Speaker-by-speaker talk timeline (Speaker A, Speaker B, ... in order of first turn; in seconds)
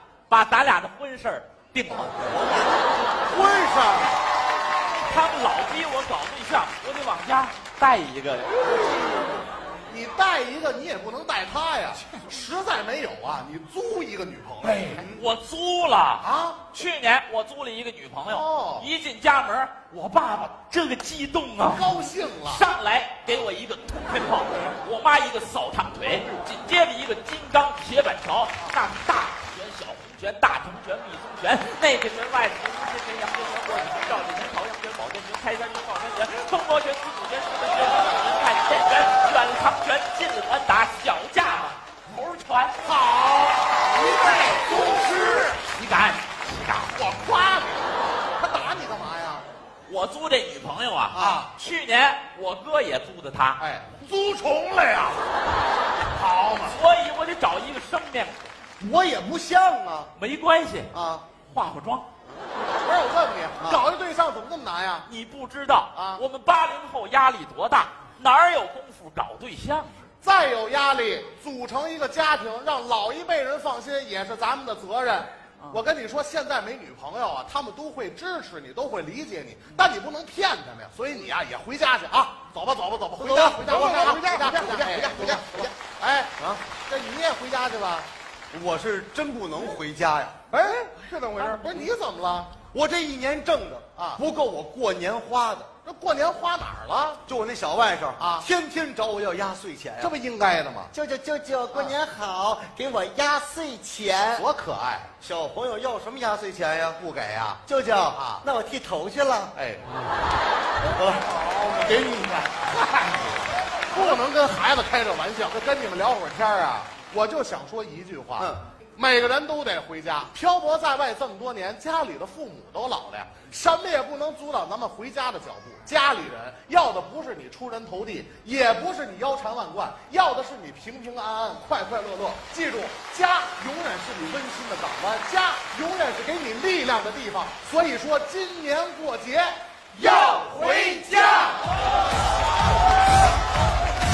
Speaker A: 0.3-2.2, 5.0-8.6, 14.9-21.9, 22.5-42.8, 43.9-47.0, 49.9-53.6, 56.7-58.4, 60.2-60.9, 61.5-62.0, 65.1-70.1
Speaker B: 2.2-4.1, 8.7-9.4, 51.1-51.5, 58.8-60.1, 60.9-61.3, 83.2-85.7, 88.5-90.4, 92.7-95.7, 97.3-100.1, 100.9-104.5, 105.2-107.0, 107.7-109.5, 110.9-111.3, 111.8-112.2, 140.0-141.5
Speaker C: 9.9-15.2, 16.2-16.6, 18.3-18.9, 21.6-22.7, 42.8-44.7, 46.9-49.5, 51.1-51.5, 53.6-55.3, 56.1-56.8, 62.8-65.1, 65.9-66.2, 70.2-88.1, 90.5-92.6, 95.8-97.2, 98.2-98.5, 100.0-100.9, 104.4-105.1, 107.0-108.4, 109.5-109.8, 111.5-113.4, 113.9-139.6